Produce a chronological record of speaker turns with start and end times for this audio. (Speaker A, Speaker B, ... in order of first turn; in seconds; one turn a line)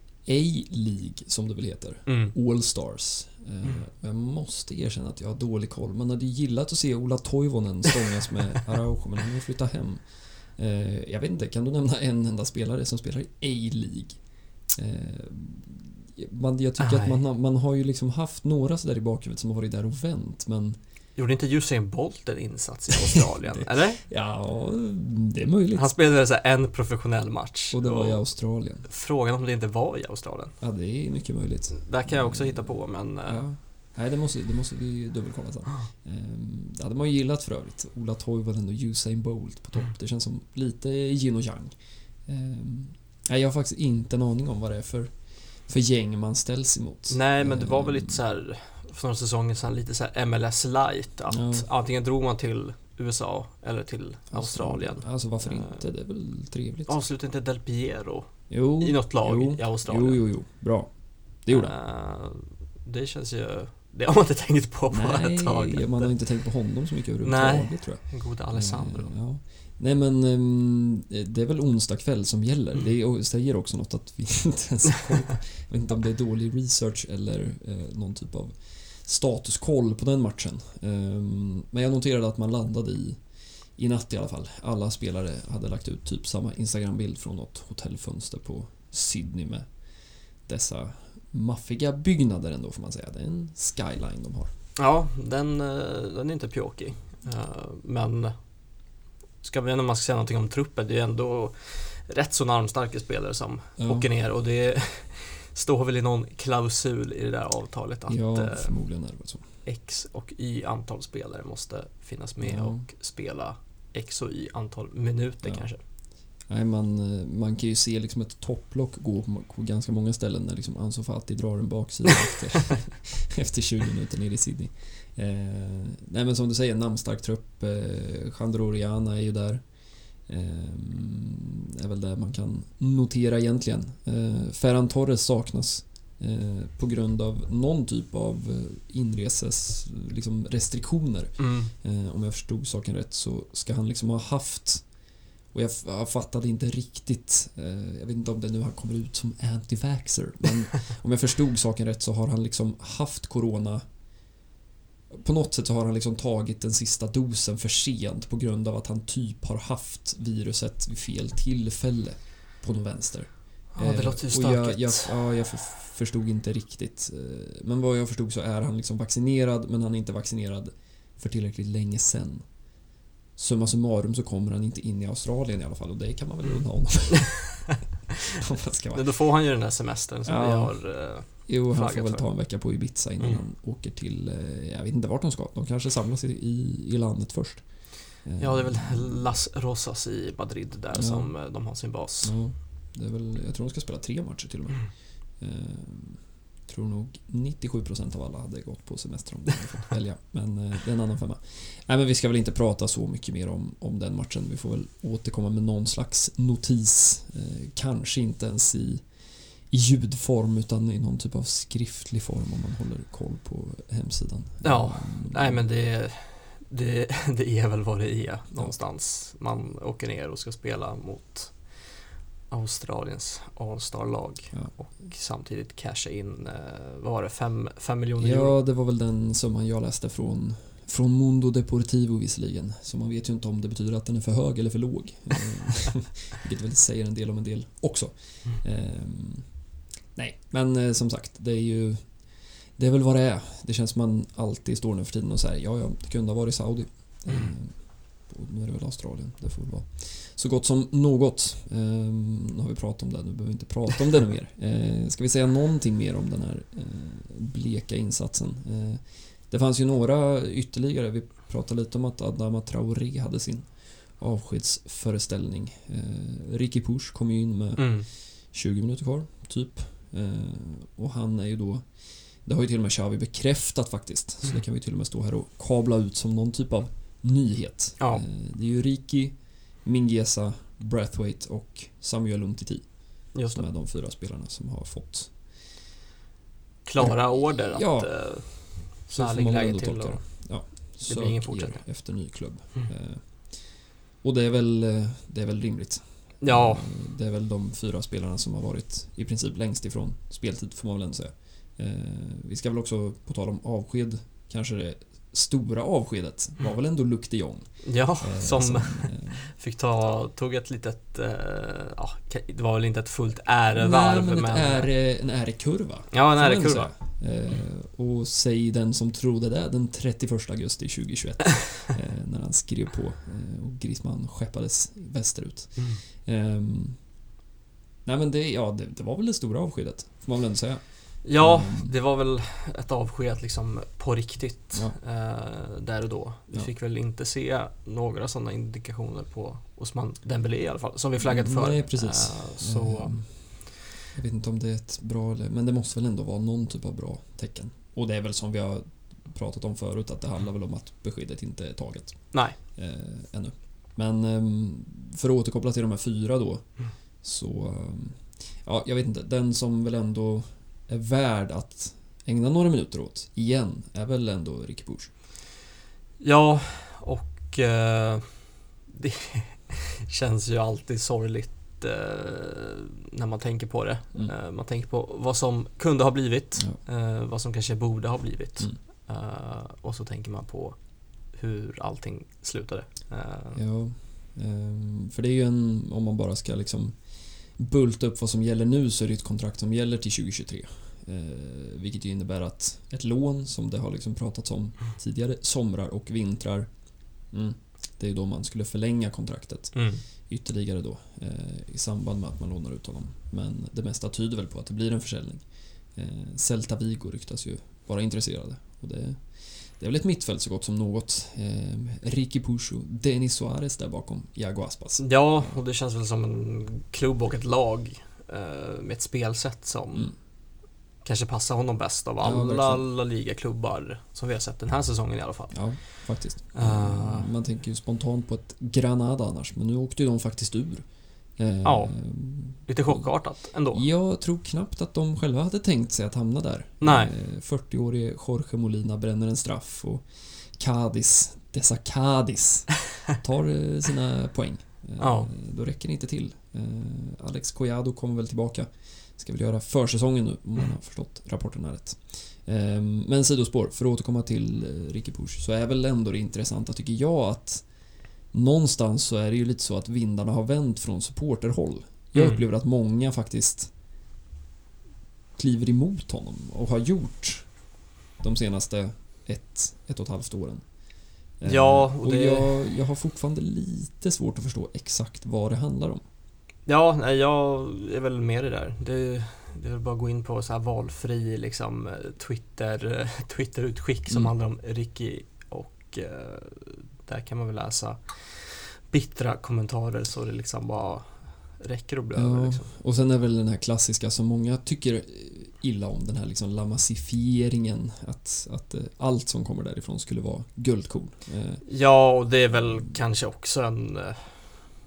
Speaker A: 0.2-14.2
Speaker B: 2.1-2.4
Speaker A: 14.7-20.8
Speaker B: 16.8-17.2
Speaker B: 21.2-24.0
Speaker A: 23.1-25.9
Speaker B: 25.8-30.6
Speaker A: 27.7-28.9
Speaker A: 30.6-48.2
Speaker B: 31.7-33.4
Speaker B: 47.1-55.8
Speaker A: 51.3-51.7
Speaker A: 54.3-57.0
Speaker B: 56.9-60.2
Speaker A: 58.5-61.8
Speaker B: 61.5-66.5
Speaker A: 64.9-89.8
Speaker B: 67.2-69.2
Speaker A: 90.4-94.5
Speaker B: 94.8-98.3
Speaker B: 99.4-108.8
Speaker A: 103.8-104.1
Speaker A: 108.1-109.5
Speaker B: 109.7-115.8
Speaker A: 112.4-112.8
Speaker A: 116.5-144.9
Speaker B: 141.4-141.7
Speaker A: 145.5-153.8
Speaker A: 155.1-172.4
Speaker B: 163.7-165.2
Speaker A: 173.4-177.7
Speaker A: 178.4-179.1
Speaker B: 178.9-182.3
Speaker A: 180.3-189.3
Speaker B: 188.4-192.4
Speaker A: 190.9-191.4
Speaker A: 192.2-215.7
Speaker B: 214.6-228.6
Speaker A: 218.5-218.8
Speaker A: 228.2-239.5
Speaker A: 240.2-285.4
Speaker B: 267.8-268.1
Speaker B: 278.0-278.2
Speaker B: 283.3-283.7
Speaker B: 286.9-291.9
Speaker A: 287.0-309.5
Speaker B: 296.4-296.9
Speaker B: 307.8-314.9
Speaker A: 313.7-327.0
Speaker B: 316.1-316.9
Speaker B: 325.8-326.0
Speaker A: 328.1-331.9
Speaker B: 331.2-343.2
Speaker A: 341.2-365.1
Speaker B: 352.3-352.6
Speaker B: 366.2-380.8
Speaker B: 381.3-383.6
Speaker A: 383.6-396.7
Speaker A: 397.3-415.6
Speaker B: 399.7-400.0
Speaker B: 415.0-420.1
Speaker B: 421.0-427.3
Speaker A: 422.2-422.9
Speaker A: 425.5-457.7
Speaker B: 431.6-433.8
Speaker B: 436.8-437.1
Speaker B: 445.0-445.3
Speaker A: 458.3-463.7
Speaker B: 462.1-462.4
Speaker A: 465.4-467.5
Speaker A: 468.2-470.6
Speaker A: 471.4-476.0
Speaker B: 471.4-472.6
Speaker B: 476.7-492.7
Speaker A: 492.1-501.7
Speaker B: 501.7-504.7
Speaker A: 502.5-502.9